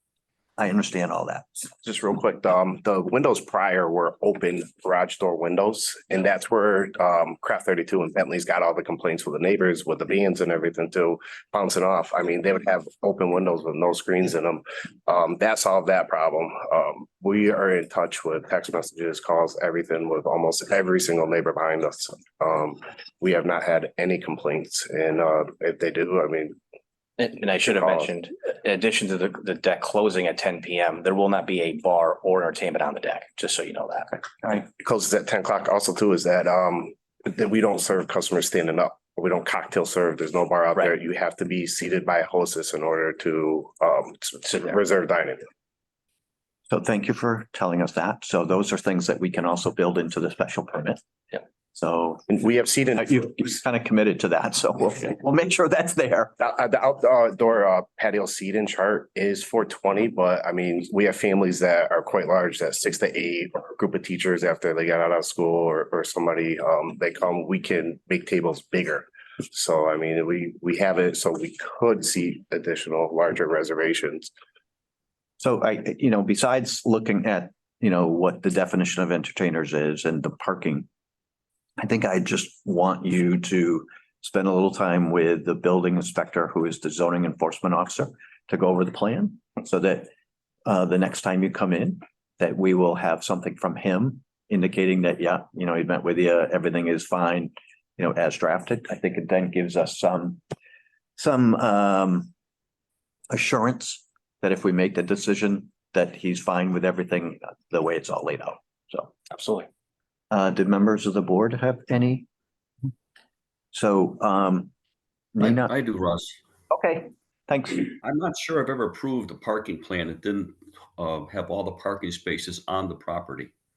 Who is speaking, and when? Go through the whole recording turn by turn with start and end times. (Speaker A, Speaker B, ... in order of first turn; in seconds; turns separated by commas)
Speaker A: 0.6-1.7, Speaker B: 1.8-26.6, Speaker C: 27.2-34.4, Speaker B: 27.7-28.1, Speaker B: 34.5-45.5, Speaker A: 46.7-51.0, Speaker A: 51.8-52.3, Speaker B: 52.3-53.6, Speaker A: 53.0-56.4, Speaker B: 56.4-74.3, Speaker A: 75.4-80.9, Speaker A: 81.8-90.1, Speaker A: 90.7-100.4, Speaker A: 101.2-102.3, Speaker A: 103.3-109.1, Speaker C: 109.3-109.7, Speaker A: 110.3-112.3, Speaker A: 113.7-114.7, Speaker A: 115.3-115.7, Speaker D: 115.4-116.4, Speaker A: 116.7-117.9, Speaker D: 118.0-123.5